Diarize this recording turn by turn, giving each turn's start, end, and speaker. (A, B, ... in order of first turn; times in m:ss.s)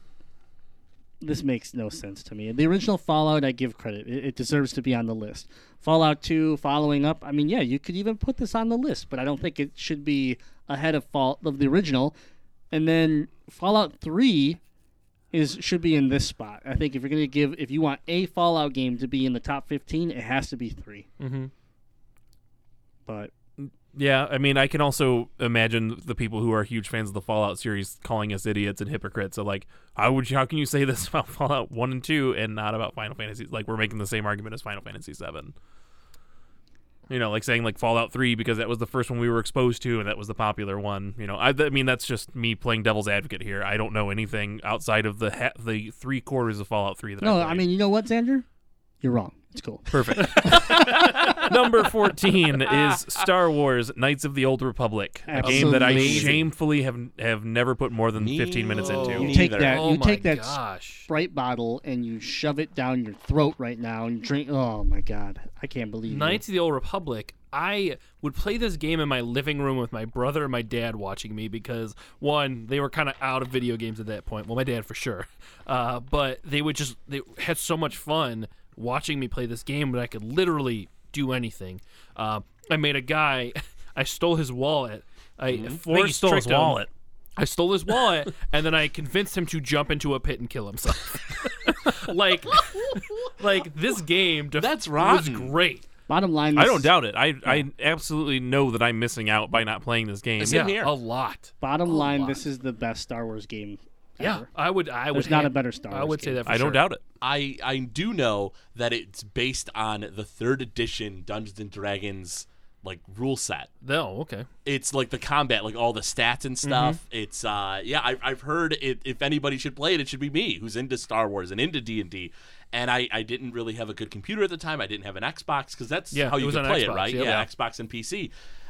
0:01.2-0:12.1 A
0:12.7-0:14.6 A
0:15.3-0:21.1 A
0:21.2-0:21.5 B
0:23.0-0:23.3 A
0:23.6-0:35.5 C
0:37.1-0:47.6 C
0:47.2-0:48.4 A
0:49.0-0:51.3 A
0:49.9-0:59.3 C
0:50.4-0:50.7 B
0:52.7-0:53.0 D
0:55.3-0:56.4 A
0:55.4-0:56.4 B
0:58.1-0:59.8 D
0:58.8-1:01.1 B
0:59.2-1:06.4 A
1:06.1-1:26.8 B
1:25.5-1:25.8 D
1:25.8-1:26.9 C
1:27.4-1:35.8 B
1:34.6-1:35.5 D
1:36.1-1:36.9 A
1:36.5-1:40.7 C
1:40.4-1:40.9 D
1:40.4-1:42.4 B
1:41.6-1:44.5 A
1:44.2-1:46.8 B
1:45.1-1:46.4 A
1:46.4-1:47.0 C
1:47.2-1:53.7 D
1:53.8-1:54.5 B
1:54.6-2:08.3 D
1:56.6-1:57.0 B
2:06.1-2:07.4 B
2:07.2-2:07.5 C